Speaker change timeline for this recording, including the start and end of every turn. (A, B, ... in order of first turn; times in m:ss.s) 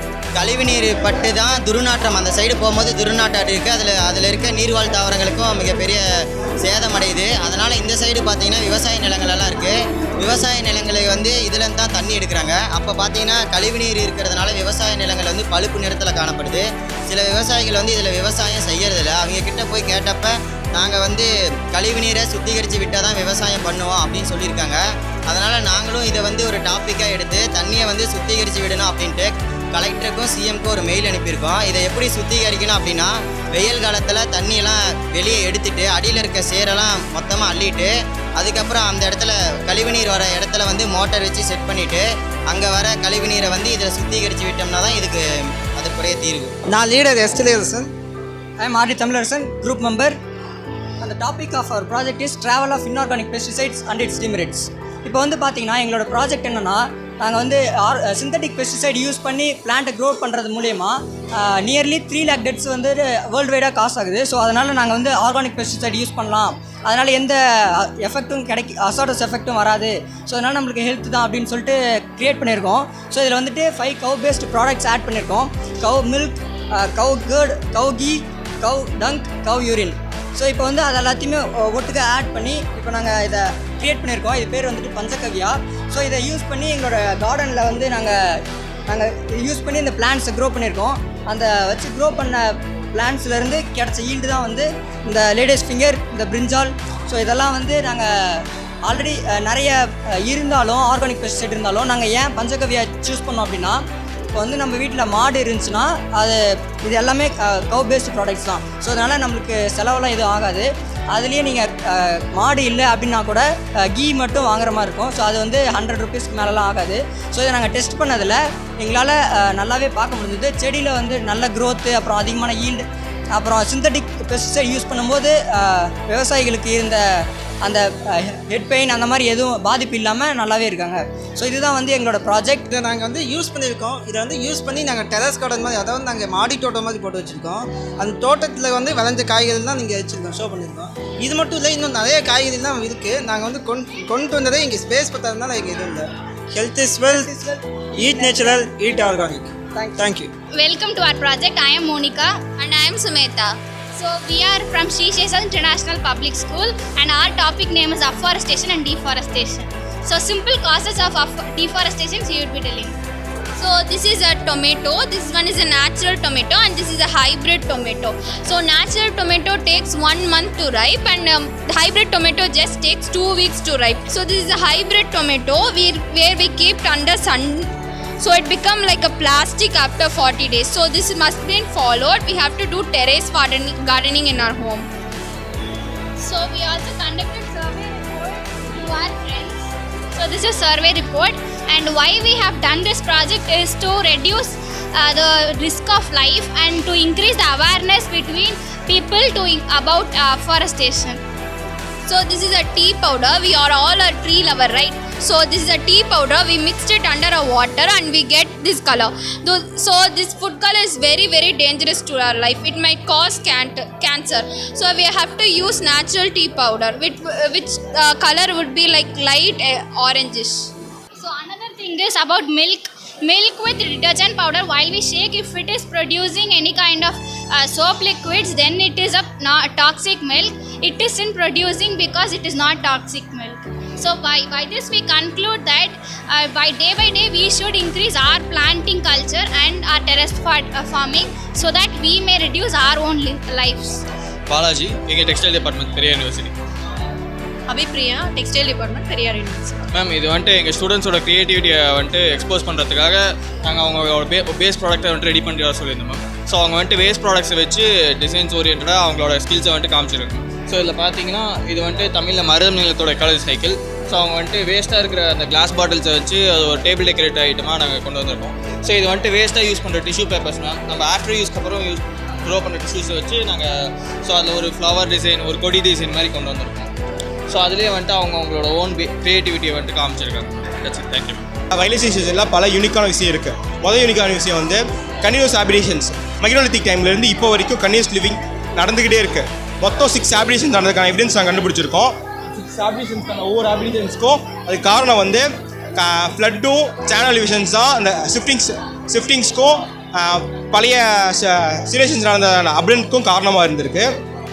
0:00.4-0:06.0 A
0:06.6-0:45.2 A
0:45.8-0:46.5 A
0:46.7-0:47.9 B
0:48.6-0:50.2 C
0:51.0-1:28.2 C
1:28.9-1:43.8 C
1:44.3-2:07.0 C
2:07.6-2:12.6 C
2:12.7-2:27.5 B
2:28.0-2:30.3 B
2:28.1-2:28.5 C
2:30.5-2:43.0 D
2:43.6-2:57.7 E
2:58.2-3:04.8 E
3:06.2-3:09.6 D
3:10.1-3:21.2 D
3:22.0-3:40.7 E
3:41.2-4:04.0 D
4:04.5-4:06.5 F
4:07.7-4:09.8 G
4:09.9-4:33.7 F
4:34.2-4:36.9 F
4:37.5-4:41.4 F
4:41.7-5:04.1 H